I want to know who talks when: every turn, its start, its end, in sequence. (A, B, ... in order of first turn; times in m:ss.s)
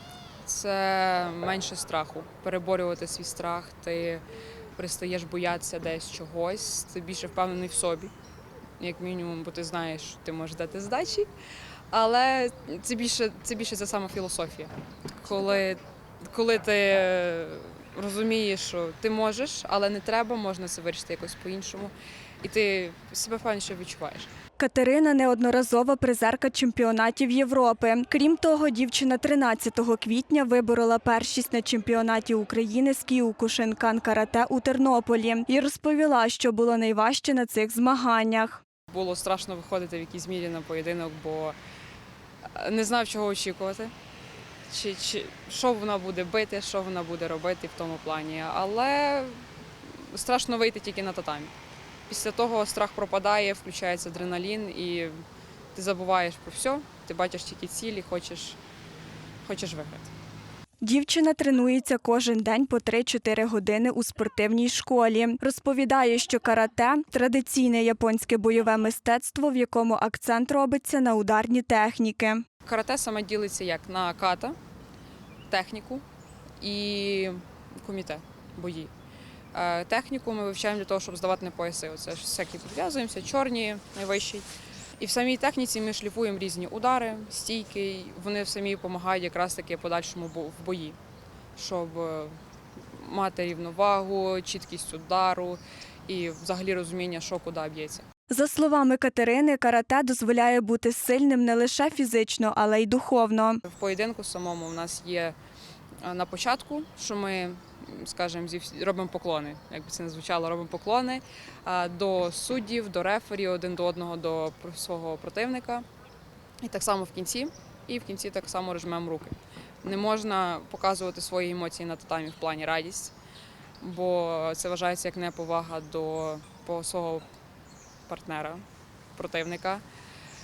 0:00.4-0:04.2 A
0:04.8-0:08.1 A
0:08.8-0:11.3 A
0:11.9-0:24.3 A
0:24.6-0:38.6 B
0:38.9-0:41.6 A
0:42.5-0:43.9 A
0:44.7-0:51.5 A
0:52.1-0:55.2 A
0:55.7-0:58.6 A
0:59.4-1:00.1 A
1:00.8-1:12.4 B
1:12.6-1:14.6 A
1:15.5-1:16.0 A
1:16.6-1:18.9 A
1:19.5-1:24.5 A
1:25.0-1:31.0 A
1:31.6-1:32.4 A
1:32.9-1:38.0 A
1:38.3-1:43.6 B
1:43.6-1:45.4 A
1:46.0-1:55.8 A
1:56.6-2:03.1 A
2:03.8-2:07.2 A
2:08.1-2:08.6 A
2:09.2-2:09.8 A